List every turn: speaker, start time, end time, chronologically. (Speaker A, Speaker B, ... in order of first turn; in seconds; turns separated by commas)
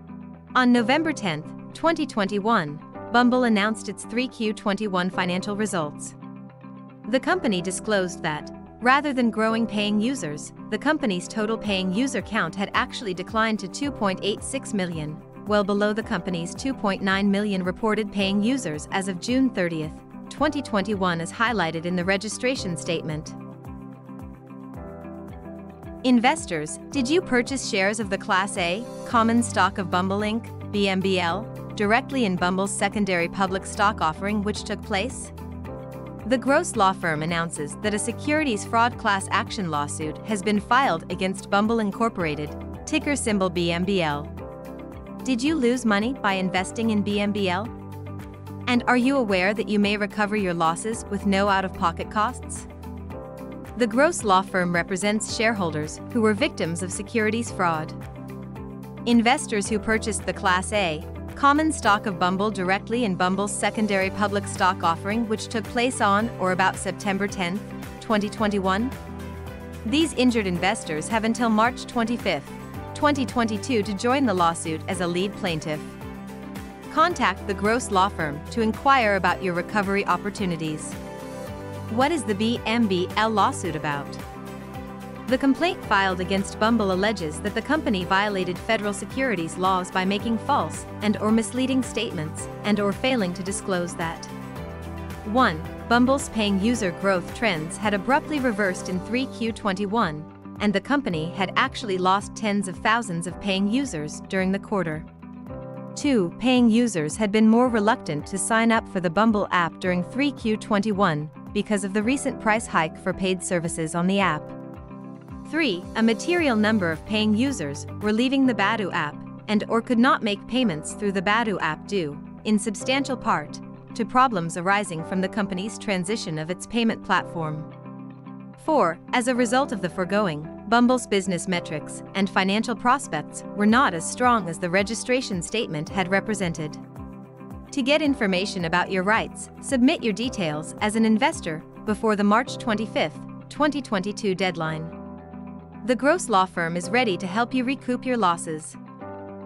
Speaker A: 0.5-6.2, Speaker A: 7.0-23.4, Speaker A: 26.0-35.3, Speaker A: 36.2-44.3, Speaker A: 45.2-47.7, Speaker A: 48.7-52.7, Speaker A: 53.7-58.0, Speaker A: 59.0-68.9, Speaker A: 69.8-76.0, Speaker A: 76.9-81.0, Speaker A: 81.9-84.2, Speaker A: 85.2-94.3, Speaker A: 95.2-105.1, Speaker A: 105.9-114.5, Speaker A: 115.4-127.7, Speaker A: 128.6-136.8, Speaker A: 137.7-144.9, Speaker A: 145.8-148.8